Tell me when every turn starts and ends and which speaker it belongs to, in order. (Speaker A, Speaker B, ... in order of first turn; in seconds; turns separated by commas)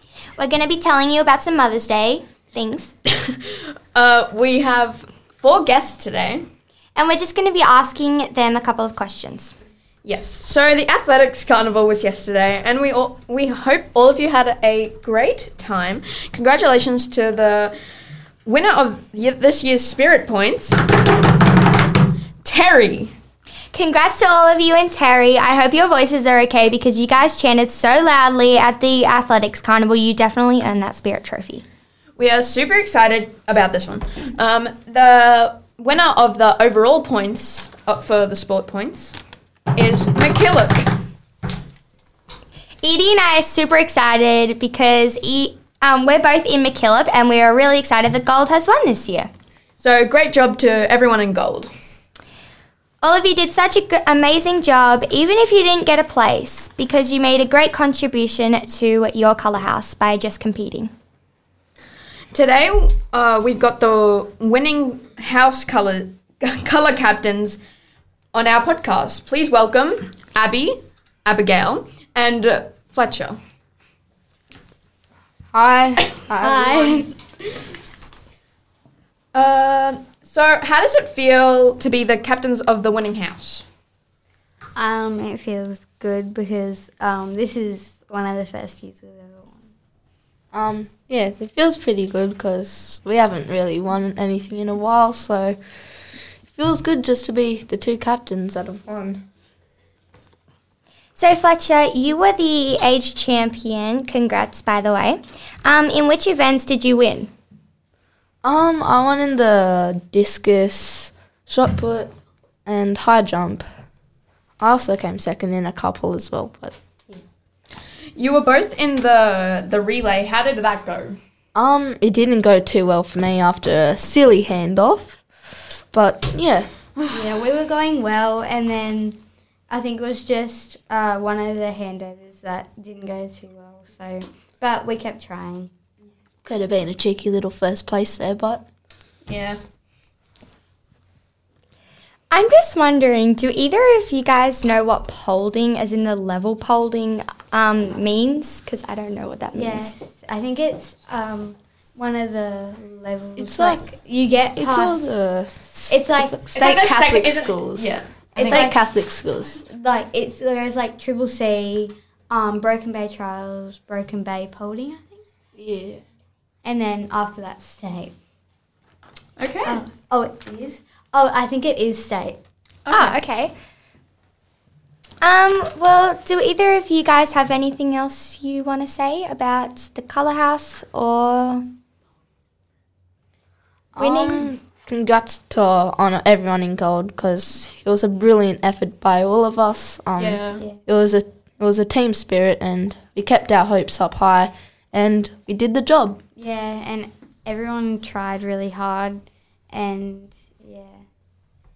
Speaker A: 0.4-2.9, Speaker B: 3.2-6.5, Speaker A: 7.0-9.6, Speaker B: 10.0-17.8, Speaker B: 18.5-21.2, Speaker B: 22.4-23.1, Speaker A: 23.7-31.6, Speaker B: 32.2-39.2, Speaker B: 39.7-40.9, Speaker A: 42.8-49.3, Speaker B: 49.8-51.7, Speaker A: 53.0-60.9, Speaker B: 62.3-67.6, Speaker B: 68.3-73.4, Speaker C: 75.5-77.1, Speaker D: 76.4-77.1, Speaker B: 79.3-83.6, Speaker D: 84.8-89.7, Speaker C: 90.5-95.6, Speaker C: 96.5-99.2, Speaker A: 101.2-107.3, Speaker C: 108.4-112.1, Speaker C: 112.7-113.7, Speaker C: 114.6-116.8, Speaker B: 118.2-121.2, Speaker C: 121.5-125.2, Speaker C: 125.9-126.7, Speaker D: 127.1-129.2, Speaker D: 129.7-135.7, Speaker C: 136.4-138.6, Speaker B: 139.3-139.6, Speaker A: 142.3-149.9, Speaker D: 149.6-155.2, Speaker C: 153.4-153.8, Speaker C: 154.6-159.6, Speaker D: 155.9-157.4, Speaker B: 156.5-158.1, Speaker A: 158.3-158.7, Speaker D: 158.3-158.8, Speaker D: 159.7-165.2, Speaker C: 165.6-166.0, Speaker D: 166.6-168.1, Speaker B: 169.4-169.8, Speaker D: 169.7-172.4, Speaker B: 172.9-173.2, Speaker A: 172.9-173.5, Speaker A: 175.2-181.7, Speaker D: 183.9-184.5, Speaker C: 184.0-196.2, Speaker B: 190.2-190.6, Speaker D: 196.4-201.0